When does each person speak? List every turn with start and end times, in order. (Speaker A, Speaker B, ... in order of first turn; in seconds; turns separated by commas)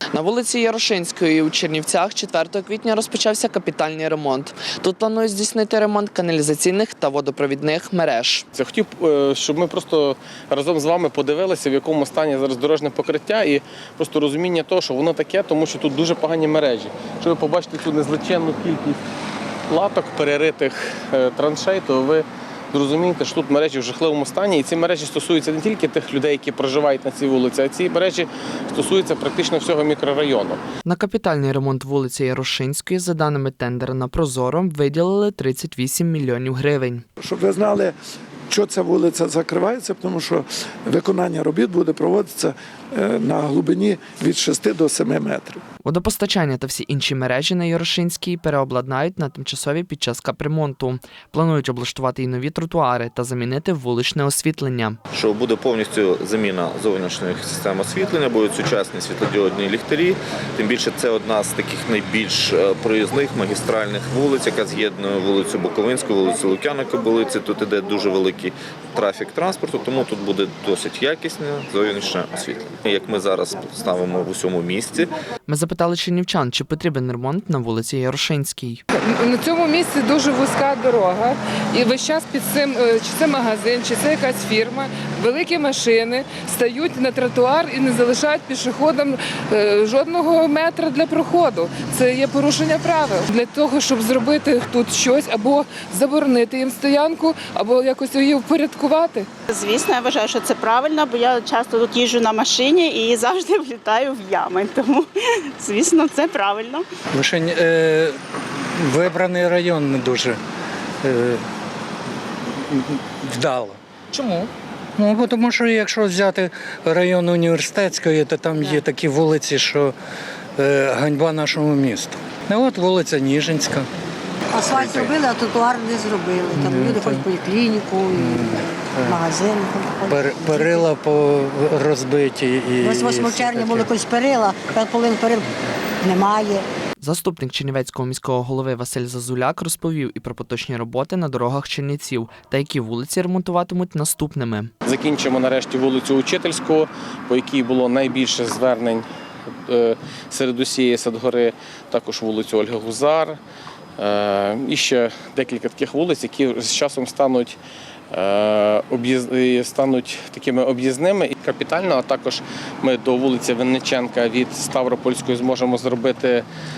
Speaker A: 0.1-8.4, Speaker B: 8.6-19.0, Speaker B: 19.7-30.6, Speaker A: 30.9-37.0, Speaker C: 37.2-38.0, Speaker C: 38.5-45.6, Speaker A: 45.8-55.0, Speaker D: 55.1-75.1, Speaker A: 75.5-78.8, Speaker E: 78.9-99.3, Speaker F: 99.5-106.9, Speaker G: 107.1-108.2, Speaker G: 108.8-110.4, Speaker G: 111.0-111.4, Speaker G: 112.7-119.9, Speaker G: 120.6-123.9, Speaker H: 124.5-130.9, Speaker G: 124.7-125.1, Speaker G: 126.6-127.3, Speaker G: 128.2-129.2, Speaker G: 130.1-133.9, Speaker H: 132.8-135.5, Speaker H: 136.0-136.7, Speaker A: 137.0-144.7, Speaker B: 144.8-149.1, Speaker B: 149.7-153.4, Speaker B: 154.0-157.6, Speaker B: 158.1-166.4